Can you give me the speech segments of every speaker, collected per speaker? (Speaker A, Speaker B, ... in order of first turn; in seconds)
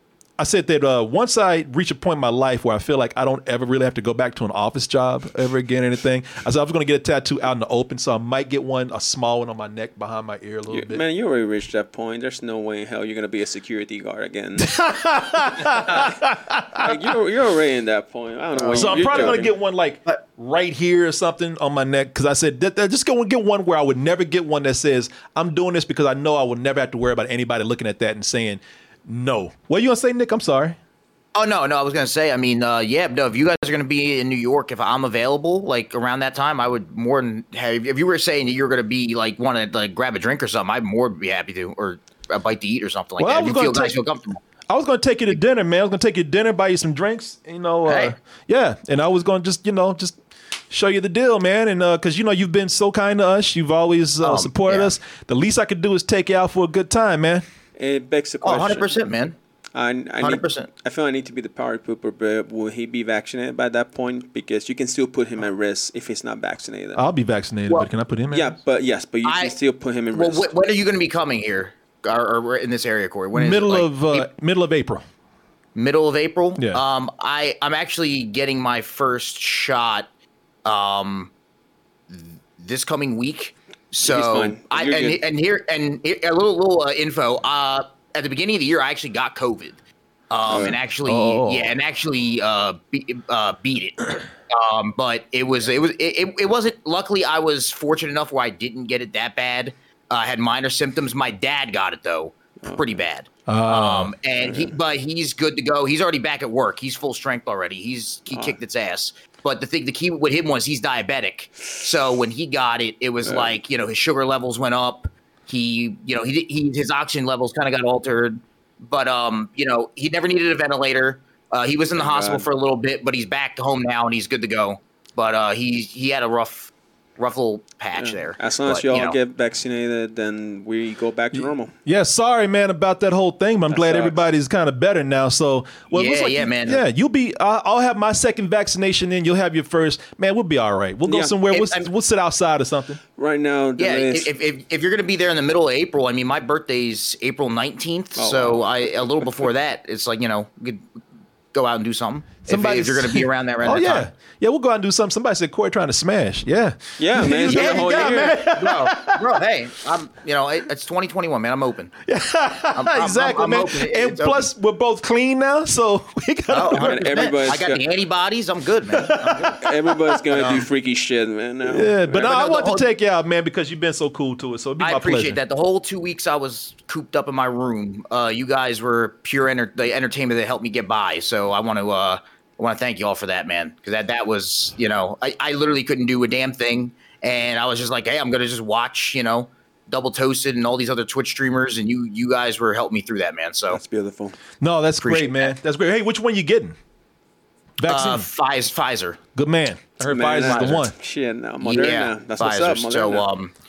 Speaker A: 0.4-11.0, 14.6-17.0, 18.7-30.8, 43.2-44.0, 44.7-50.2, 50.7-57.4, 66.9-68.5, 73.3-75.0, 76.6-76.8, 91.0-91.7, 103.5-104.1, 131.3-143.0, 152.4-159.3, 162.1-167.3, 168.9-169.5, 171.6-175.4, 194.6-196.8, 197.8-198.3, 199.3-200.9
Speaker B: 10.7-14.7, 16.8-19.5, 57.8-59.1, 59.7-67.0, 68.3-70.5, 84.0-85.2, 90.5-90.8, 102.6-103.0, 104.4-104.7, 108.3-108.6, 113.2-113.6, 121.9-122.5, 128.0-131.7, 133.7-134.2, 141.1-141.3, 143.2-144.3, 148.2-149.4, 157.0-158.4, 166.7-167.8, 169.6-172.4, 193.7-194.3, 200.0-203.3
Speaker C: 31.3-44.4, 47.9-48.1, 54.2-54.9, 58.4-59.4, 60.2-60.7, 69.2-69.5, 70.1-74.3, 75.7-80.1, 80.6-81.3, 82.1-89.8, 90.3-129.2, 135.9-136.8, 141.5-141.9, 143.8-150.9, 151.5-154.1, 157.3-161.9, 162.7-164.5, 166.5-169.5, 170.3-170.7, 172.1-172.9, 174.8-193.8, 195.0-195.5, 197.8-199.2, 201.6-203.5